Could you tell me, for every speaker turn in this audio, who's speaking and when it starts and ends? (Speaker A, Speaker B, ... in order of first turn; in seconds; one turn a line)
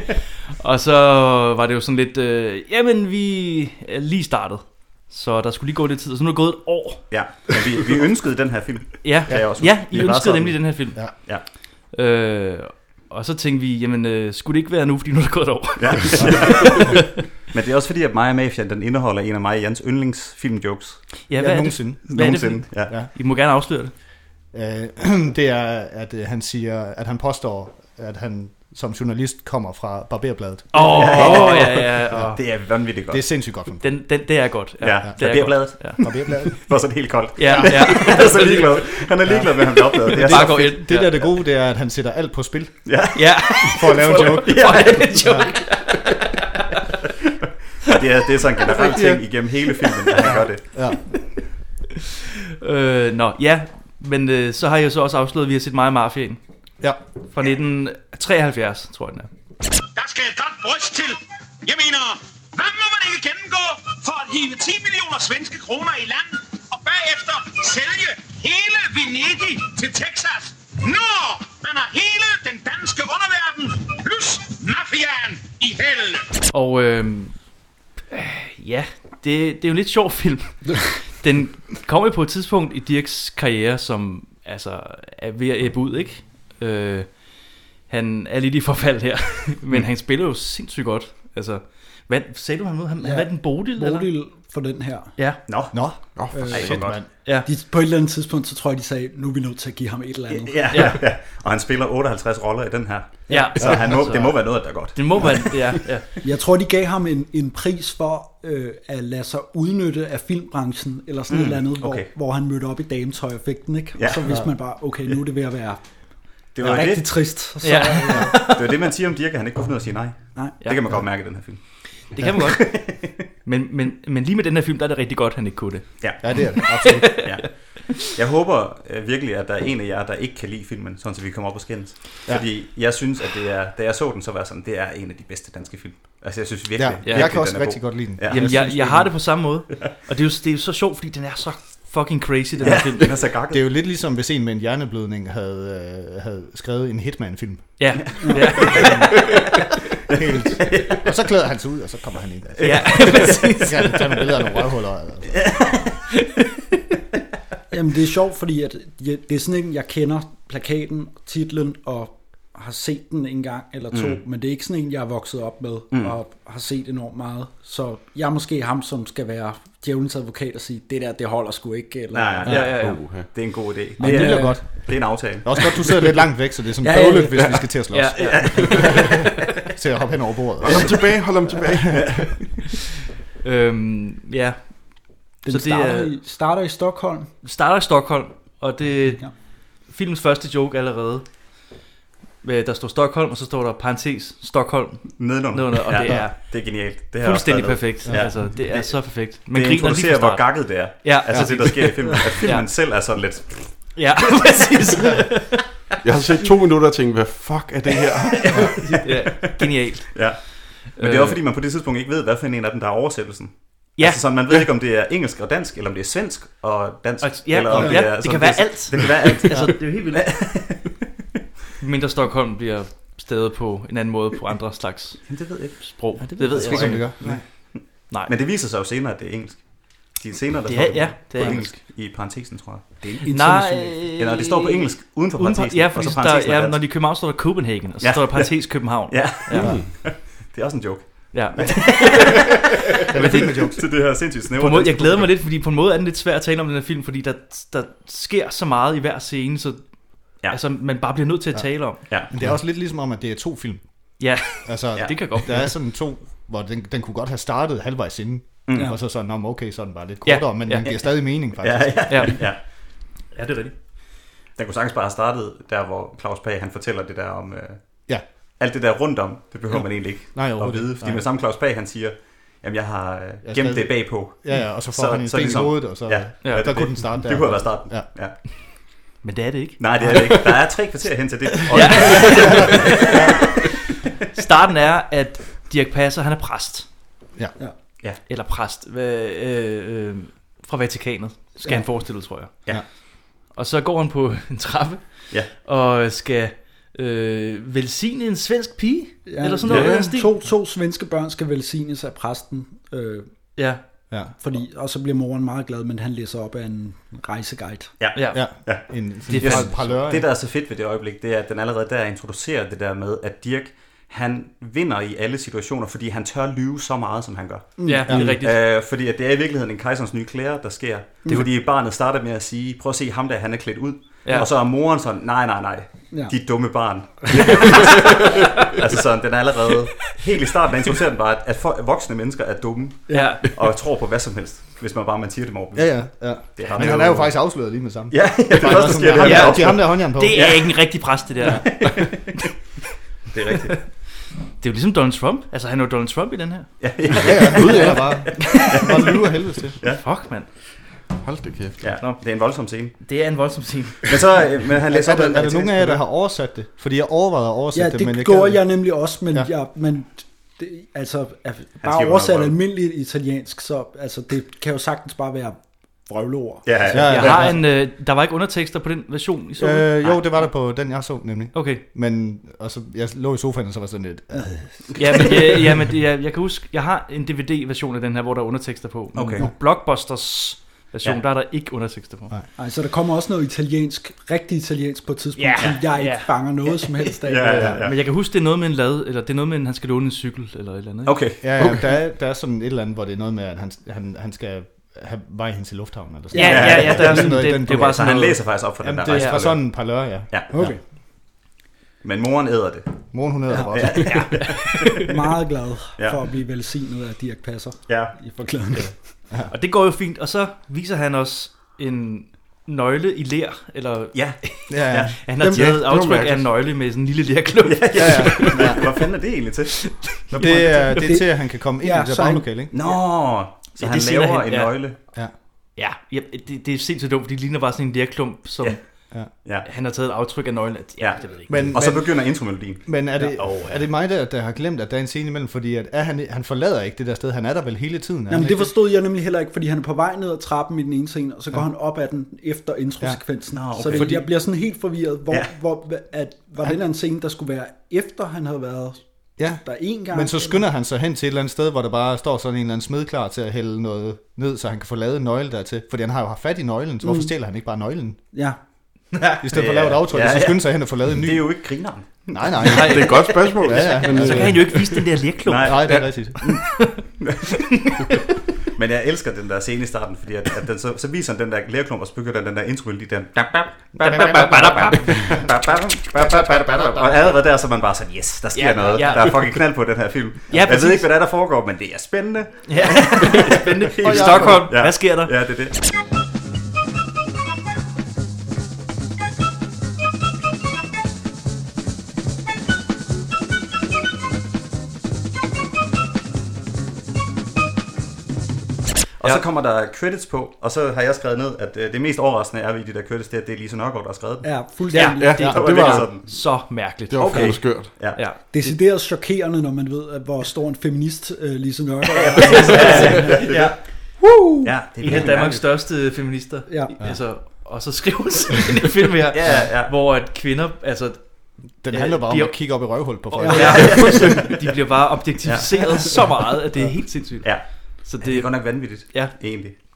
Speaker A: 0.6-7.1
Speaker B: 7.1-11.4
Speaker A: 9.0-11.3
Speaker A: 11.9-17.2
Speaker B: 15.8-21.2
Speaker C: 16.1-16.9
Speaker A: 21.3-23.9
Speaker C: 21.4-22.3
Speaker B: 21.9-23.0
Speaker C: 24.5-32.4
Speaker A: 30.7-32.4
Speaker B: 30.8-33.5
Speaker C: 33.1-33.8
Speaker A: 33.8-36.2
Speaker B: 34.8-40.7
Speaker C: 35.0-36.8
Speaker A: 37.4-38.8
Speaker C: 37.5-38.3
Speaker C: 39.2-39.5
Speaker C: 40.1-43.1
Speaker A: 40.1-41.3
Speaker B: 42.8-45.2
Speaker A: 43.1-46.4
Speaker C: 43.7-45.5
Speaker B: 47.8-50.6
Speaker C: 48.7-49.2
Speaker C: 50.2-51.0
Speaker A: 52.6-56.4
Speaker A: 57.3-59.3
Speaker D: 60.0-76.4
Speaker A: 76.5-77.4
Speaker A: 78.1-94.1
Speaker E: 93.0-95.1
Speaker A: 95.2-95.9
Speaker B: 95.5-96.0
Speaker C: 95.7-97.1
Speaker F: 96.2-97.0
Speaker E: 96.3-100.5
Speaker B: 96.5-97.0
Speaker A: 97.1-97.5
Speaker B: 100.3-105.6
Speaker A: 100.7-101.0
Speaker A: 103.3-106.1
Speaker C: 103.3-104.0
Speaker E: 106.2-118.3
Speaker B: 111.3-112.1
Speaker B: 114.0-114.3
Speaker B: 116.5-117.4
Speaker A: 117.6-118.7
Speaker B: 118.4-123.2
Speaker A: 120.6-120.9
Speaker A: 122.0-128.1
Speaker B: 126.0-126.5
Speaker C: 126.2-127.3
Speaker B: 128.1-138.7
Speaker C: 136.7-139.3
Speaker A: 137.0-143.2
Speaker B: 142.6-143.8
Speaker C: 143.5-148.9
Speaker A: 147.8-149.1
Speaker E: 148.2-148.9
Speaker C: 150.1-155.4
Speaker A: 152.6-154.2
Speaker B: 153.0-153.4
Speaker E: 157.7-172.5
Speaker B: 163.9-164.2
Speaker B: 172.1-175.7
Speaker C: 172.4-172.8
Speaker F: 172.5-173.3
Speaker A: 172.5-173.1
Speaker E: 174.0-174.8
Speaker C: 174.0-181.0
Speaker E: 176.8-177.5
Speaker F: 177.3-177.7
Speaker A: 177.9-179.3
Speaker B: 178.3-179.0
Speaker F: 180.6-182.3
Speaker A: 183.4-186.2
Speaker E: 185.4-187.3
Speaker A: 187.4-191.3
Speaker A: 192.4-202.7
Speaker B: 195.2-203.9
Speaker C: 198.0-198.4
Speaker C: 201.3-201.7
Speaker A: 203.9-205.7
Speaker F: 206.0-208.8
Speaker A: 208.4-211.4
Speaker B: 210.1-220.9
Speaker A: 214.0-214.6
Speaker A: 217.2-220.3
Speaker A: 221.8-228.3
Speaker B: 225.3-236.9
Speaker C: 226.2-227.4
Speaker A: 230.7-231.8
Speaker A: 233.2-239.8
Speaker E: 233.3-233.6
Speaker B: 238.0-245.3
Speaker F: 239.6-239.9
Speaker A: 241.3-242.4
Speaker C: 243.1-243.8
Speaker A: 243.1-243.6
Speaker A: 244.5-249.8
Speaker A: 250.4-252.2
Speaker C: 251.5-253.8
Speaker B: 252.1-252.3
Speaker A: 254.2-255.7
Speaker C: 254.4-262.2
Speaker B: 258.7-258.9
Speaker A: 260.2-261.0
Speaker B: 261.6-262.6
Speaker A: 262.1-262.5
Speaker A: 263.3-263.8
Speaker B: 264.6-278.4
Speaker C: 269.7-271.3
Speaker C: 273.4-278.1
Speaker A: 276.4-276.9
Speaker A: 279.2-280.5
Speaker B: 279.8-283.5
Speaker A: 281.7-283.2
Speaker C: 282.1-283.4
Speaker A: 284.4-286.9
Speaker A: 288.3-292.6
Speaker A: 293.4-300.4
Speaker E: 299.3-303.5
Speaker F: 299.6-300.1
Speaker A: 303.6-303.8
Speaker E: 304.4-307.9
Speaker B: 308.0-337.5
Speaker A: 308.1-308.6
Speaker C: 308.3-310.3
Speaker A: 309.3-309.9
Speaker E: 317.8-318.1
Speaker A: 317.8-318.6
Speaker C: 318.1-318.3
Speaker E: 333.1-333.3
Speaker A: 333.1-333.5
Speaker C: 335.7-340.6
Speaker B: 338.1-342.3
Speaker A: 339.1-341.9
Speaker B: 343.3-343.8
Speaker A: 344.5-346.8
Speaker B: 346.8-350.0
Speaker C: 347.2-349.8
Speaker A: 349.8-350.5
Speaker F: 351.2-351.9
Speaker B: 351.8-353.0
Speaker A: 351.9-352.2
Speaker A: 353.0-354.2
Speaker B: 354.0-356.0
Speaker C: 354.8-358.7
Speaker E: 357.7-366.7
Speaker B: 361.8-362.5
Speaker B: 366.6-367.6
Speaker C: 366.9-367.6
Speaker A: 367.0-370.5
Speaker C: 369.6-375.8
Speaker A: 371.5-371.8
Speaker B: 375.0-375.3
Speaker A: 375.0-382.3
Speaker B: 379.1-379.5
Speaker E: 382.6-387.8
Speaker A: 385.4-386.9
Speaker B: 387.3-387.9
Speaker A: 387.5-391.4
Speaker B: 391.1-391.7
Speaker C: 391.4-400.8
Speaker E: 396.3-397.1
Speaker A: 396.3-399.6
Speaker B: 396.4-400.5
Speaker E: 400.5-400.8
Speaker B: 402.0-404.8
Speaker C: 403.1-404.3
Speaker A: 404.2-404.7
Speaker E: 405.1-409.0
Speaker B: 407.9-408.1
Speaker A: 409.5-418.9
Speaker B: 414.1-415.2
Speaker C: 414.7-415.8
Speaker E: 415.4-415.7
Speaker F: 415.5-416.8
Speaker B: 417.6-419.7
Speaker C: 417.9-418.8
Speaker A: 419.8-421.0
Speaker B: 420.3-420.8
Speaker C: 420.4-422.7
Speaker E: 420.9-422.4
Speaker B: 422.7-425.0
Speaker A: 423.8-424.9
Speaker A: 425.8-429.1
Speaker B: 428.6-429.6
Speaker A: 429.6-431.8
Speaker B: 431.0-432.9
Speaker C: 431.5-438.7
Speaker E: 438.3-449.0
Speaker B: 443.5-444.2
Speaker C: 443.8-444.2
Speaker C: 449.4-458.2
Speaker E: 449.6-450.6
Speaker E: 457.0-457.3
Speaker E: 458.3-458.6
Speaker B: 459.2-463.9
Speaker C: 459.4-461.7
Speaker C: 462.3-464.8
Speaker A: 462.6-467.1
Speaker F: 462.7-465.1
Speaker B: 465.4-466.2
Speaker C: 465.6-466.4
Speaker B: 468.7-485.8
Speaker A: 474.0-475.4
Speaker C: 474.0-475.0
Speaker C: 476.2-477.1
Speaker A: 478.5-479.3
Speaker A: 480.5-481.1
Speaker A: 482.6-485.6
Speaker C: 484.0-484.7
Speaker B: 499.2-504.7
Speaker E: 504.4-505.5
Speaker A: 504.9-508.8
Speaker F: 505.2-506.0
Speaker B: 505.2-508.2
Speaker C: 505.4-506.1
Speaker F: 507.1-508.1
Speaker E: 508.5-513.4
Speaker B: 512.1-513.9
Speaker A: 512.4-513.8
Speaker B: 514.6-515.6
Speaker A: 515.0-529.5
Speaker E: 516.7-516.9
Speaker B: 519.3-519.9
Speaker C: 521.8-524.2
Speaker E: 523.4-524.0
Speaker B: 523.5-526.0
Speaker B: 527.4-529.8